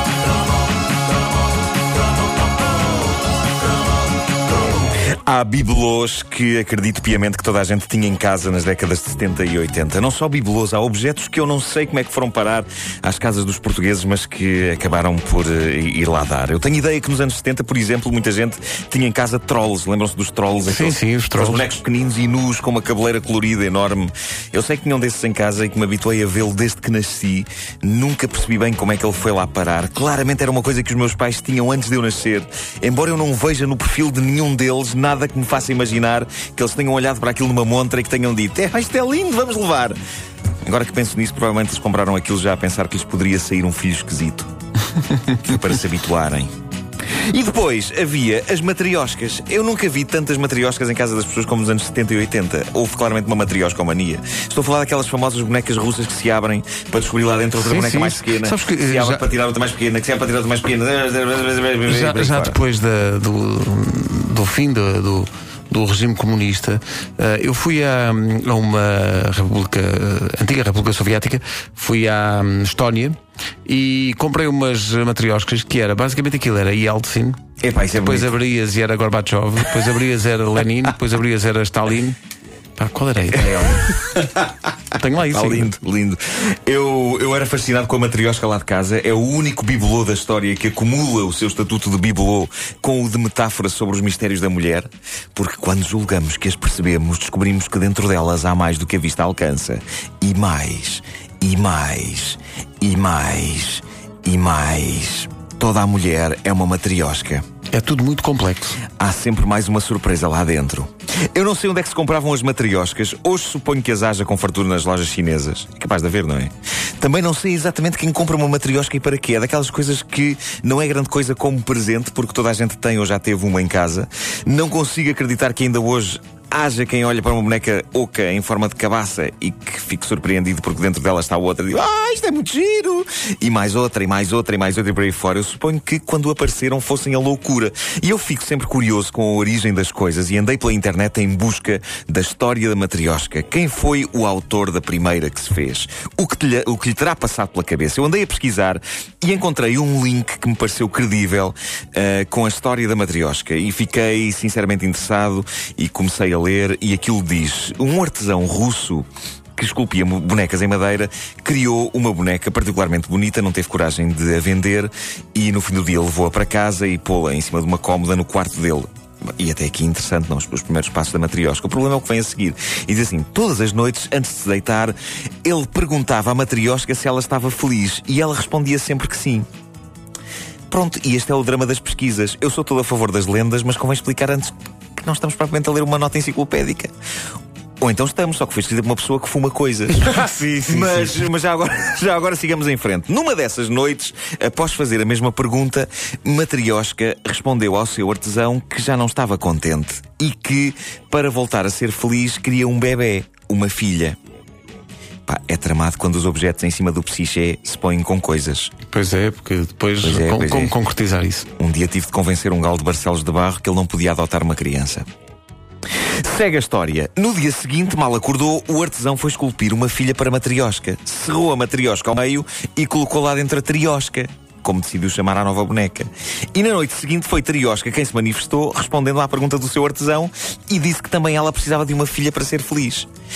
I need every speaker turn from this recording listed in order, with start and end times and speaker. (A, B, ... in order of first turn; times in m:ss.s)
0:05.2-0:40.0 A
0:20.6-0:21.6 B
0:40.6-0:44.5 A
0:45.4-0:46.5 A
0:47.1-1:02.6 A
0:57.6-0:59.2 B
1:01.9-1:17.4 B
1:17.6-1:18.4 A
1:18.0-1:22.2 B
1:22.8-1:23.9 B
1:23.7-1:24.5 A
1:24.9-1:25.8 B
1:25.3-1:47.4 A
1:47.7-1:48.8 B
1:48.9-2:59.4 A
3:00.7-3:06.9 A
3:07.8-3:10.1 A
3:10.7-3:24.2 A
3:25.3-3:28.7 A
3:28.9-3:31.5 B
3:30.0-3:30.8 A
3:31.6-3:35.0 A
3:36.1-3:53.1 A